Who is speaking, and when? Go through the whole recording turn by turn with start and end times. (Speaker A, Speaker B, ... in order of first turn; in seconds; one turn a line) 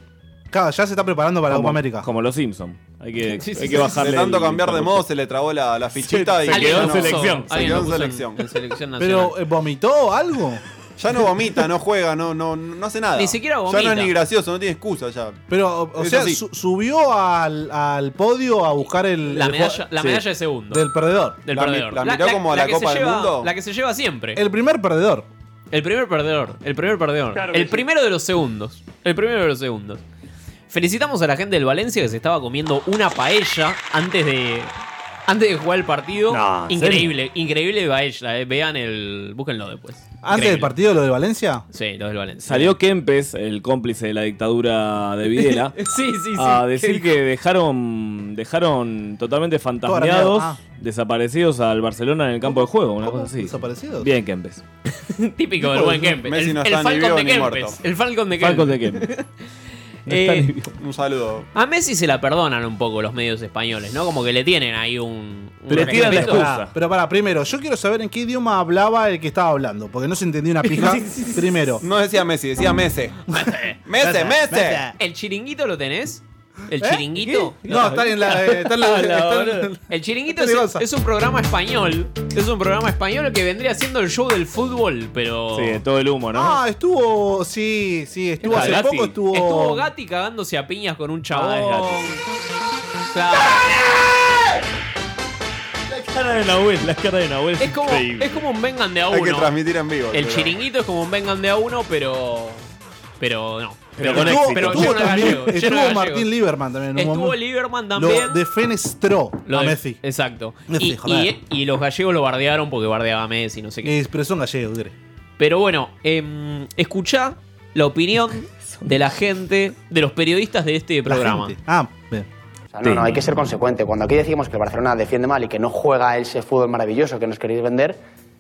Speaker A: 0.5-2.1
Speaker B: 1.5-5.1
Speaker C: 3.3-4.0
Speaker D: 3.8-8.4
Speaker B: 6.0-7.9
Speaker C: 6.5-9.3
Speaker A: 9.0-10.6
Speaker D: 11.0-15.4
Speaker C: 13.2-14.2
Speaker A: 15.5-19.9
Speaker D: 16.0-16.4
Speaker C: 19.3-20.9
Speaker A: 20.7-21.4
Speaker C: 21.4-24.4
Speaker D: 21.5-23.5
Speaker A: 24.3-25.3
Speaker C: 25.7-30.0
Speaker C: 30.7-34.7
Speaker C: 35.3-40.7
Speaker B: 36.3-37.1
Speaker A: 40.2-41.6
Speaker C: 41.7-42.7
Speaker B: 42.4-45.8
Speaker C: 45.4-47.1
Speaker B: 46.4-54.6
Speaker A: 49.8-50.6
Speaker A: 53.0-54.1
Speaker C: 55.1-59.2
Speaker D: 55.7-57.8
Speaker B: 58.4-59.1
Speaker C: 60.1-60.5
Speaker B: 60.1-60.6
Speaker D: 60.8-61.5
Speaker C: 61.5-66.5
Speaker B: 65.7-66.7
Speaker A: 65.7-71.8
Speaker C: 70.6-71.5
Speaker D: 71.8-73.2
Speaker D: 73.8-74.8
Speaker A: 74.0-74.9
Speaker C: 75.0-77.7
Speaker A: 76.8-80.8
Speaker B: 77.7-79.6
Speaker C: 79.9-85.8
Speaker B: 85.5-86.6
Speaker A: 86.3-89.9
Speaker C: 88.4-92.2
Speaker B: 88.5-89.0
Speaker B: 91.3-92.2
Speaker C: 93.1-93.9
Speaker B: 95.9-98.3
Speaker C: 97.6-99.5
Speaker D: 99.1-100.6
Speaker C: 100.1-102.6
Speaker C: 103.2-106.3
Speaker B: 104.0-105.4
Speaker A: 104.0-107.4
Speaker C: 107.0-108.4
Speaker A: 107.9-110.0
Speaker C: 109.5-113.9
Speaker A: 110.7-111.3
Speaker A: 113.8-114.9
Speaker C: 115.4-121.5
Speaker A: 121.0-122.3
Speaker E: 122.7-128.0